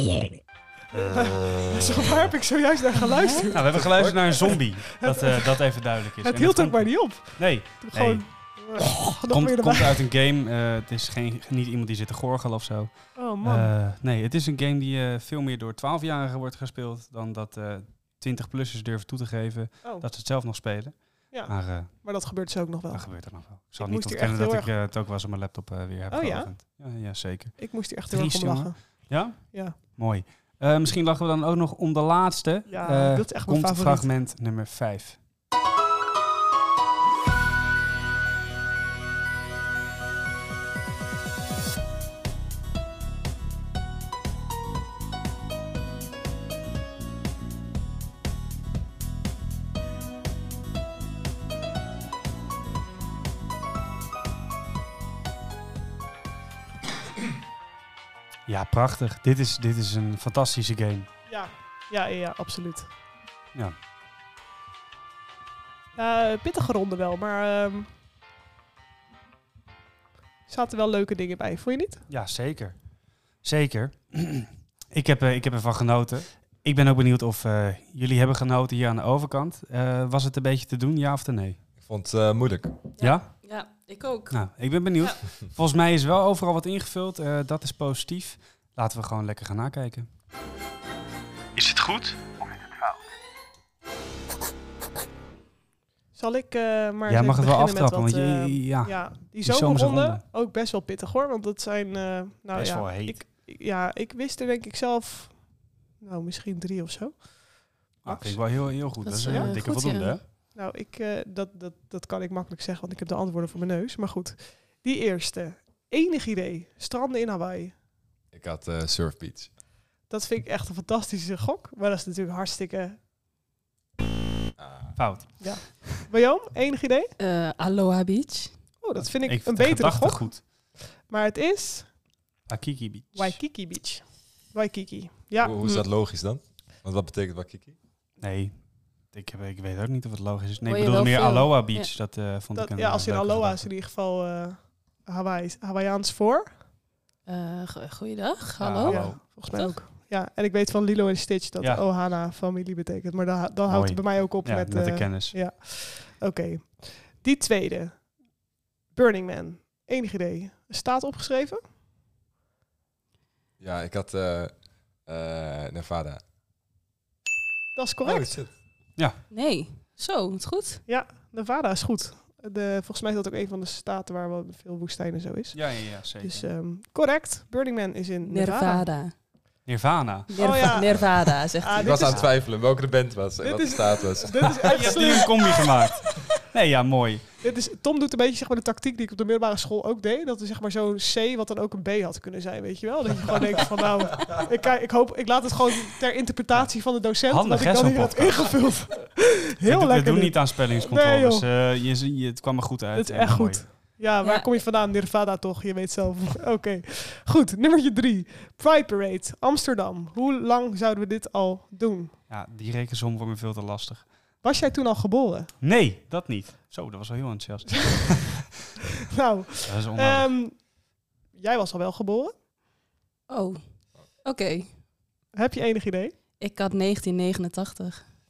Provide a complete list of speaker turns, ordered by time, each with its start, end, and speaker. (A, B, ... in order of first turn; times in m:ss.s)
0:00.9-0:10.0 A
0:03.1-0:03.5 B
0:03.5-0:22.4 C
0:03.7-0:04.2 D
0:13.2-0:13.7 A
0:21.3-0:24.8 A
0:22.9-0:35.2 C
0:26.1-0:26.8 A
0:27.6-0:29.8 A
0:32.7-0:34.1 A
0:58.5-1:01.1 C
1:01.3-1:02.9 A
1:06.0-1:07.9 A
1:10.5-1:12.0 A
1:12.1-1:12.8 C
1:13.4-1:21.6 C
1:21.8-1:22.8 D
1:23.0-1:24.4 B
1:23.0-1:23.3 C
1:24.3-1:30.1 C
1:31.6-1:33.0 C
1:36.2-1:49.7 A
1:37.1-1:40.2 C
1:42.5-1:43.2 C
1:48.0-1:50.2 C
1:49.0-1:50.2 B
1:50.5-1:57.8 A
1:58.3-1:59.5 D
2:00.1-2:03.0 A
2:04.6-2:05.0 D
2:05.0-2:05.9 C
2:05.4-2:07.1 A
2:07.2-2:08.5 B
2:08.8-2:12.0 A
2:09.0-2:10.4 C
2:12.5-2:13.4 C
2:13.2-2:15.5 A
2:15.4-2:17.8 D
2:18.2-2:23.7 C
2:20.6-2:21.9 B
2:22.6-2:26.6 A
2:27.3-2:29.8 B
2:28.6-2:29.2 C
2:28.9-2:38.4 A
2:31.6-2:31.8 C
2:33.7-2:35.4 C
2:38.9-2:41.6 A
2:43.6-2:46.2 D
2:47.8-2:48.4 A
2:48.0-2:48.5 D
2:49.3-2:50.8 B
2:50.9-2:58.9 A
2:55.5-2:56.5 C
2:58.2-2:59.1 B
2:59.7-3:00.8 C
3:00.3-3:02.0 B
3:00.4-3:02.3 A
3:01.7-3:05.2 D
3:03.4-3:05.7 A
3:04.7-3:07.3 C
3:07.4-3:21.5 A
3:16.5-3:18.9 C
3:19.6-3:23.7 C
3:23.0-3:32.2 A
3:24.2-3:24.5 B
3:32.3-3:34.1 C
3:34.4-3:35.6 A
3:35.6-3:38.4 C
3:39.1-3:42.4 A
3:39.6-3:40.3 C
3:43.3-3:43.6 B
3:44.2-3:44.7 B
3:45.3-3:46.2 A
3:46.4-3:48.0 B